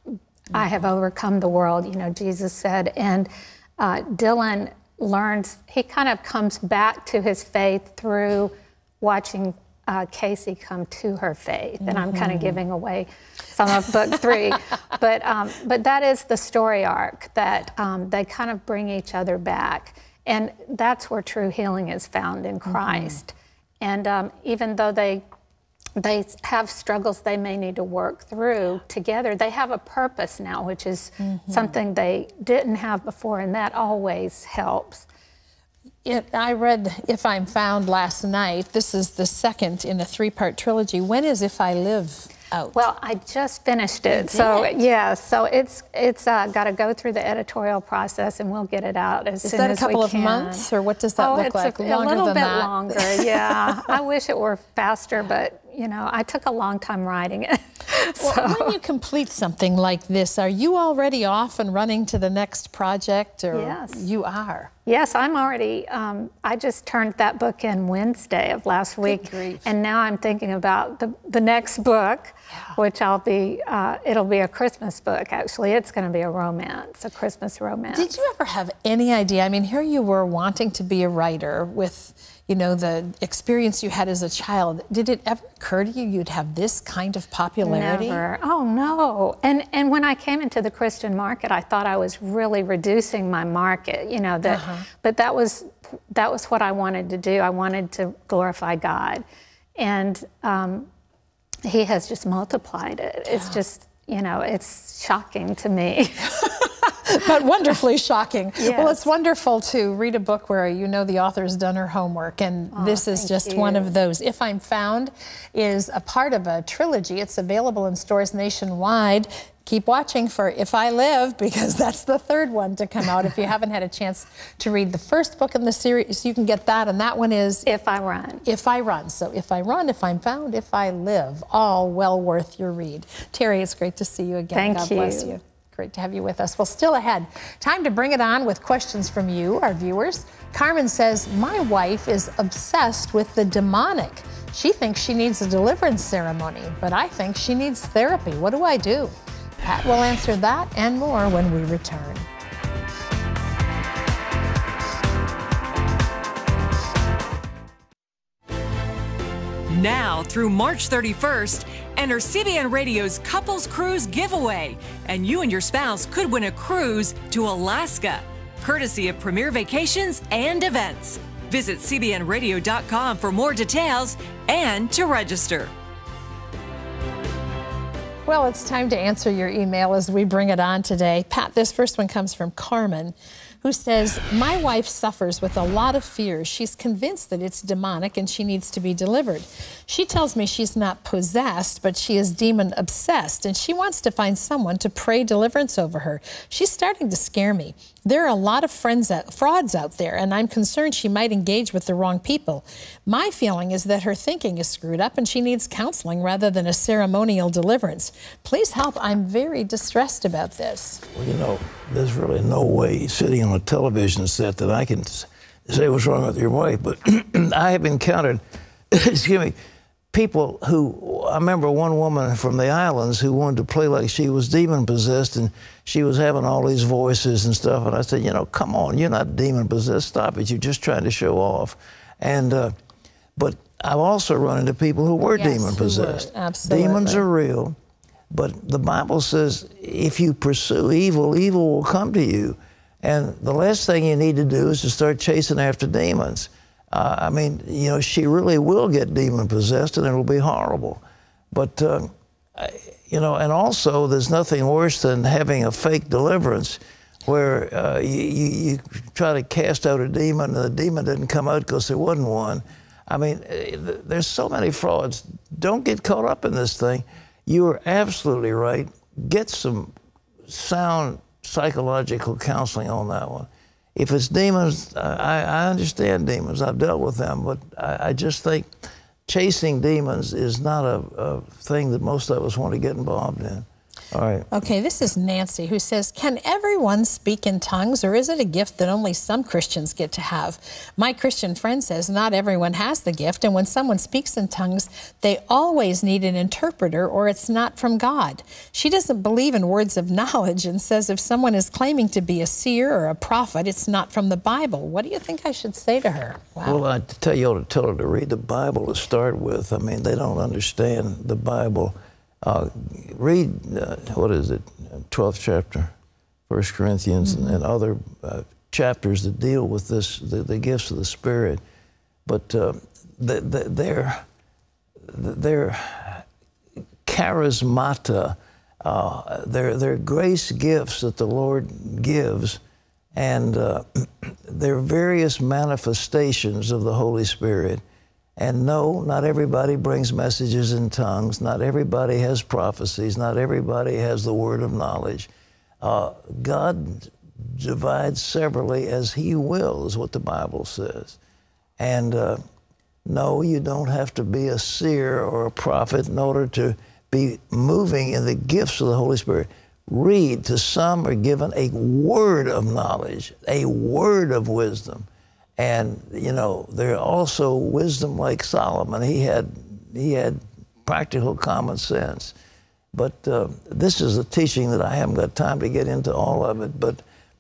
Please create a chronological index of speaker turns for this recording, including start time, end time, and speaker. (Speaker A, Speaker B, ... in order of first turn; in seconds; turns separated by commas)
Speaker A: 0.5-25.2, Speaker B: 11.8-12.6, Speaker B: 22.7-23.2, Speaker A: 26.0-35.1, Speaker B: 31.2-31.8, Speaker B: 36.0-42.8, Speaker A: 42.7-58.8, Speaker B: 44.1-44.8, Speaker B: 49.4-53.9, Speaker B: 58.2-64.7, Speaker A: 63.5-64.0, Speaker A: 64.9-78.2, Speaker B: 69.0-69.7, Speaker B: 77.9-88.2, Speaker A: 87.6-99.2, Speaker B: 94.5-94.8, Speaker A: 99.8-100.9, Speaker A: 101.7-106.5, Speaker B: 103.3-103.6, Speaker B: 107.1-127.7, Speaker A: 108.6-109.1, Speaker A: 112.7-113.9, Speaker A: 127.7-128.5, Speaker B: 128.4-152.3, Speaker A: 134.5-135.4, Speaker C: 159.7-175.7, Speaker B: 178.3-211.0, Speaker D: 211.1-219.6, Speaker D: 220.1-232.8, Speaker D: 233.4-237.8, Speaker B: 235.3-237.2, Speaker D: 238.3-251.0, Speaker D: 251.5-269.9, Speaker D: 270.5-278.7, Speaker D: 279.3-284.5, Speaker B: 284.5-306.8, Speaker D: 306.6-315.9, Speaker D: 316.5-321.6, Speaker B: 317.2-317.6, Speaker D: 322.3-324.2, Speaker D: 325.0-326.2, Speaker D: 327.1-332.6, Speaker D: 333.1-337.8, Speaker D: 338.4-345.3, Speaker D: 345.8-351.2, Speaker D: 351.8-352.4, Speaker D: 353.1-365.1, Speaker D: 365.6-372.3, Speaker D: 372.9-377.0